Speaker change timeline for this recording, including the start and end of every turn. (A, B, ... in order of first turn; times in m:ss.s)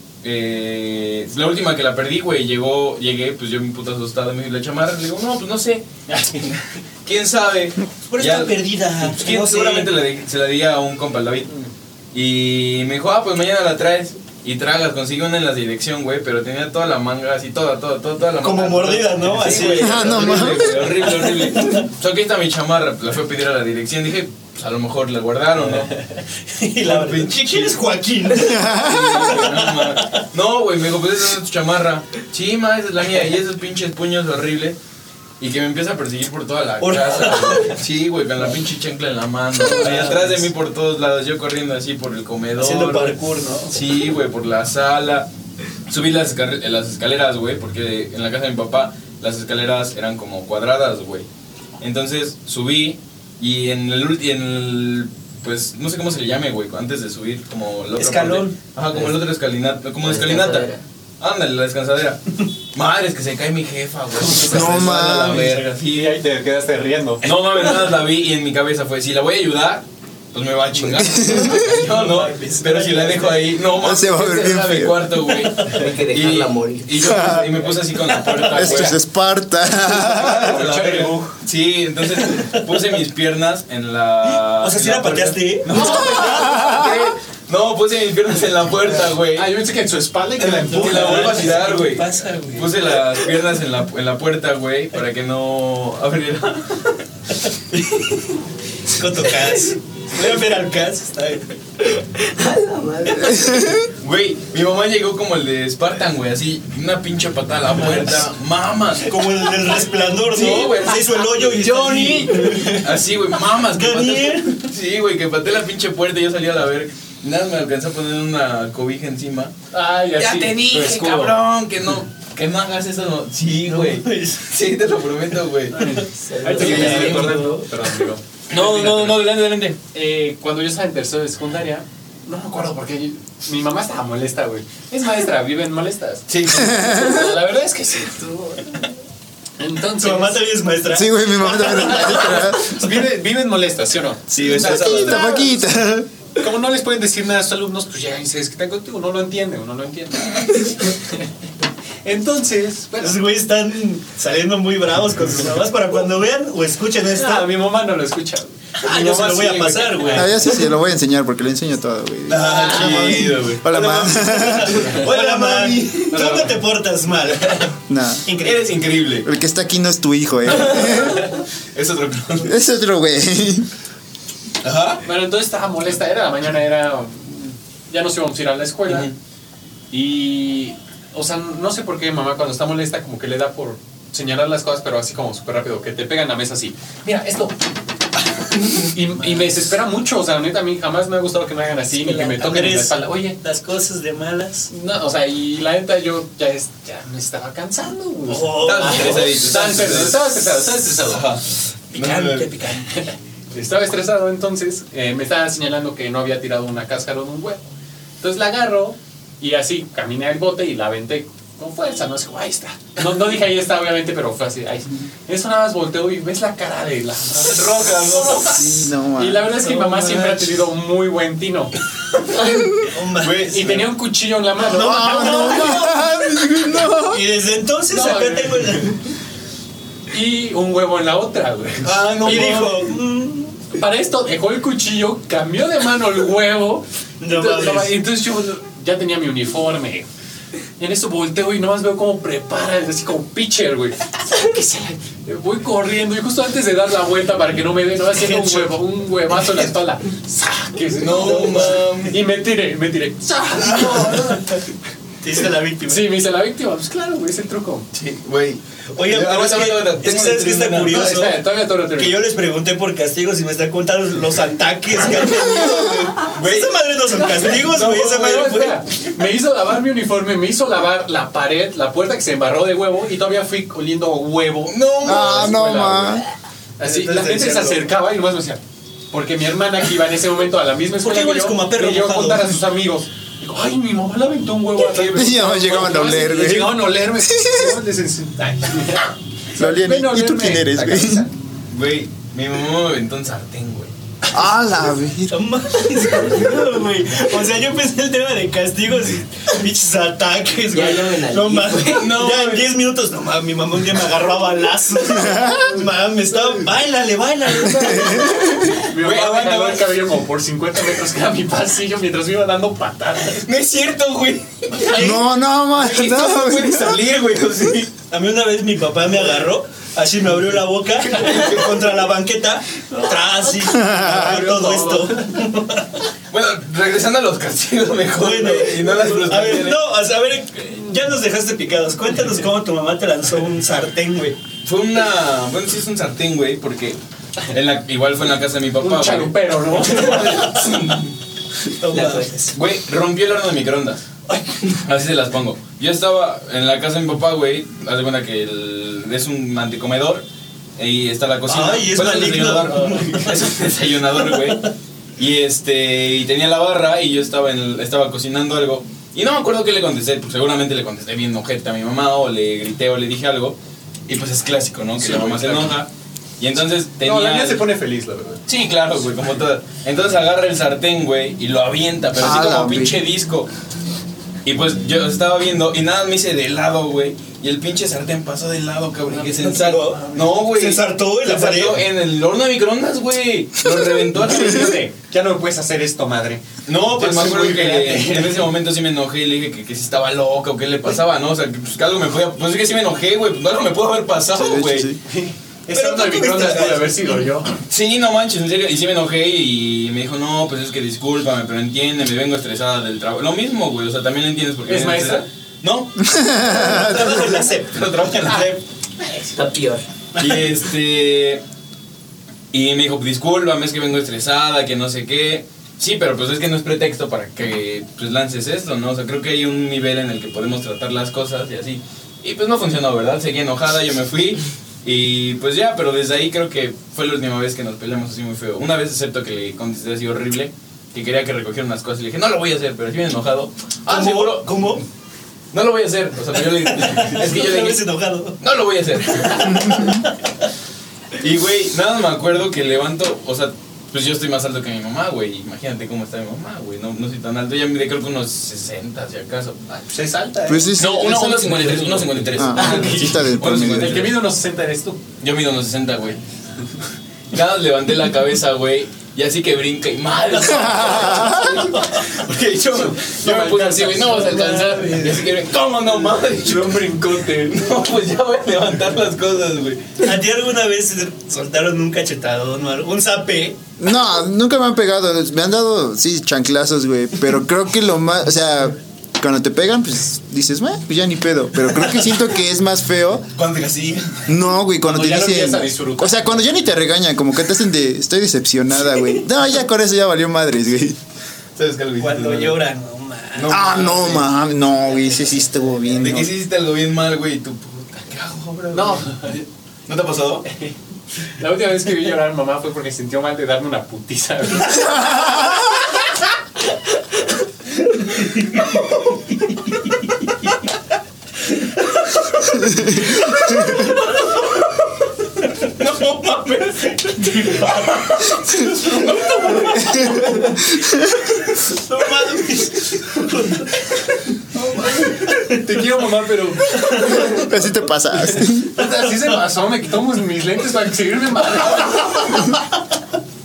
0:00.2-0:25.9 A
0:08.1-0:09.9 B
0:18.4-0:21.9 B
0:19.2-0:20.3 C
0:19.8-0:20.7 D
0:26.5-0:30.2 B
0:26.8-0:27.8 A
0:28.4-0:29.2 D
0:28.7-0:34.8 A
0:35.4-0:45.3 A
0:36.8-0:37.8 B
0:39.6-0:40.4 B
0:42.6-0:43.8 B
0:45.9-0:51.3 A
0:51.8-1:06.2 A
0:58.0-0:58.6 B
1:00.0-1:00.8 E
1:04.3-1:07.2 C
1:04.3-1:05.6 D
1:07.2-1:19.0 A
1:10.9-1:11.6 D
1:11.6-1:13.6 B
1:13.8-1:15.1 D
1:15.3-1:15.9 B
1:15.6-1:17.1 E
1:17.0-1:17.5 D
1:18.4-1:20.6 D
1:18.6-1:18.9 C
1:20.0-1:29.5 A
1:20.2-1:21.4 C
1:22.2-1:22.6 B
1:24.5-1:26.8 B
1:25.6-1:26.7 C
1:26.2-1:26.9 D
1:29.3-1:31.6 C
1:30.4-1:33.0 B
1:30.5-1:37.0 A
1:37.7-1:38.2 B
1:38.8-1:41.5 B
1:41.9-1:43.7 E
1:43.3-1:43.8 D
1:44.0-1:49.1 A
1:49.0-1:52.8 B
1:50.3-1:51.1 A
1:51.6-1:52.8 C
1:52.4-1:59.5 A
1:53.7-1:54.7 B
1:59.7-2:01.3 C
2:00.2-2:05.8 A
2:00.8-2:01.2 E
2:03.6-2:04.4 B
2:05.7-2:09.3 C
2:05.8-2:07.6 B
2:06.2-2:07.3 E
2:06.6-2:07.5 A
2:08.5-2:09.8 A
2:09.9-2:18.9 C
2:16.3-2:16.9 A
2:16.5-2:17.4 D
2:19.6-2:20.5 C
2:20.0-2:22.5 B
2:20.9-2:22.8 D
2:21.8-2:25.6 C
2:24.3-2:26.1 D
2:26.4-2:31.2 C
2:32.0-2:33.2 C
2:33.0-2:37.5 B
2:37.1-2:40.4 C
2:38.8-2:40.4 B
2:40.1-2:44.9 D
2:42.3-2:43.6 A
2:42.4-2:47.8 B
2:44.7-2:45.1 C
2:44.8-2:46.4 A
2:46.1-2:46.6 C
2:47.9-2:48.2 D
2:48.2-2:48.6 B
2:48.4-2:49.3 A
2:49.2-2:51.2 D
2:50.5-2:52.5 A
2:52.4-2:53.7 D
2:54.6-2:55.0 A
2:55.0-2:59.1 C
2:58.9-2:59.1 A
2:59.9-3:07.6 C
3:08.6-3:09.3 A
3:08.8-3:13.4 C
3:11.9-3:14.7 B
3:14.7-3:21.3 C
3:18.3-3:19.5 B
3:18.6-3:21.4 A
3:21.9-3:22.9 B
3:21.9-3:22.5 A
3:22.8-3:27.7 C
3:28.2-3:41.7 C
3:37.4-3:38.6 A
3:38.4-3:40.2 D
3:42.8-3:43.9 B
3:43.2-3:43.8 A
3:43.5-3:46.1 C
3:44.7-3:47.2 D
3:44.7-3:46.0 B
3:47.1-3:49.0 B
3:47.9-3:48.9 C
3:50.1-3:52.6 C
3:51.8-3:52.8 A
3:52.2-3:53.6 B
3:53.7-4:00.1 C
3:57.2-3:58.0 B
4:00.8-4:14.4 C
4:08.2-4:08.7 B
4:11.0-4:12.2 A
4:11.2-4:11.9 B
4:13.6-4:14.6 B
4:15.2-4:16.1 B
4:15.9-4:17.9 C
4:17.9-4:21.1 A
4:19.0-4:28.8 B
4:20.9-4:22.2 C
4:25.7-4:26.1 D
4:26.2-4:26.8 A
4:27.4-4:36.2 C
4:34.7-4:35.6 A
4:35.0-4:36.2 D
4:36.8-4:51.3 C
4:36.8-4:37.9 B
4:41.0-4:42.6 B
4:44.8-4:46.0 A
4:45.1-4:47.8 D
4:49.6-4:51.3 D
4:51.7-4:53.9 A
4:54.3-4:55.4 D
4:55.3-5:08.4 B
5:00.7-5:02.1 E
5:01.9-5:02.7 A
5:05.1-5:05.7 D
5:07.6-5:08.7 D
5:08.8-5:13.5 C
5:08.9-5:09.9 A
5:13.5-5:15.2 A
5:14.9-5:15.2 B
5:15.0-5:17.7 D
5:15.7-5:17.9 A
5:18.1-5:26.0 B
5:21.0-5:22.0 A
5:23.6-5:24.5 D
5:24.0-5:25.2 C
5:26.3-5:29.8 A
5:28.2-5:34.4 B
5:34.6-5:41.1 A
5:38.8-5:40.6 C
5:39.9-5:40.7 B
5:41.6-5:42.5 B
5:41.9-5:42.3 E
5:42.5-5:44.0 A
5:44.3-5:44.5 B
5:44.7-5:50.2 A
5:50.8-6:07.6 A
5:51.5-5:53.6 B
5:54.3-5:54.6 B
6:05.0-6:05.8 C
6:07.0-6:08.4 C
6:08.5-6:13.5 A
6:12.2-6:13.0 D
6:14.4-6:24.8 A
6:19.1-6:21.9 B
6:24.2-6:28.5 C
6:26.6-6:34.9 A
6:34.3-6:35.0 D
6:35.0-6:37.5 C
6:35.7-6:37.2 B
6:37.7-6:46.1 A
6:44.7-6:45.2 C
6:46.0-6:47.4 D
6:46.4-6:48.6 B
6:47.7-6:48.5 A
6:49.0-6:49.3 C
6:49.4-6:49.8 E
6:50.2-6:50.5 B
6:50.2-6:51.4 A
6:52.5-7:14.8 A
7:13.9-7:14.8 B
7:15.5-7:17.8 A
7:16.4-7:18.4 B
7:18.4-7:20.0 A
7:19.1-7:20.2 B
7:21.2-7:29.6 A
7:29.7-7:35.0 C
7:30.5-7:34.0 D
7:30.8-7:34.2 A
7:35.2-7:36.2 A
7:37.3-7:50.1 A
7:40.4-7:42.0 B
7:40.7-7:41.6 D
7:42.7-7:45.3 C
7:44.4-7:45.2 B
7:46.4-7:47.7 C
7:50.0-7:53.6 B
7:53.8-8:03.3 D
8:03.4-8:04.0 A
8:04.3-8:11.0 D
8:04.8-8:06.7 C
8:11.6-8:12.6 A
8:12.0-8:13.5 B
8:13.4-8:14.3 A
8:13.5-8:16.3 D
8:16.0-8:20.5 A
8:18.7-8:19.4 C
8:20.5-8:20.7 C
8:21.3-8:24.9 C
8:24.9-8:25.6 D
8:28.4-8:28.6 B
8:35.8-8:40.4 A
8:37.3-8:37.8 B
8:38.9-8:39.9 B
8:39.8-8:41.2 D
8:41.6-8:43.9 B
8:44.5-8:47.4 C
8:45.2-8:45.5 B
8:46.7-8:47.4 B
8:47.0-8:48.8 D
8:48.3-8:52.4 C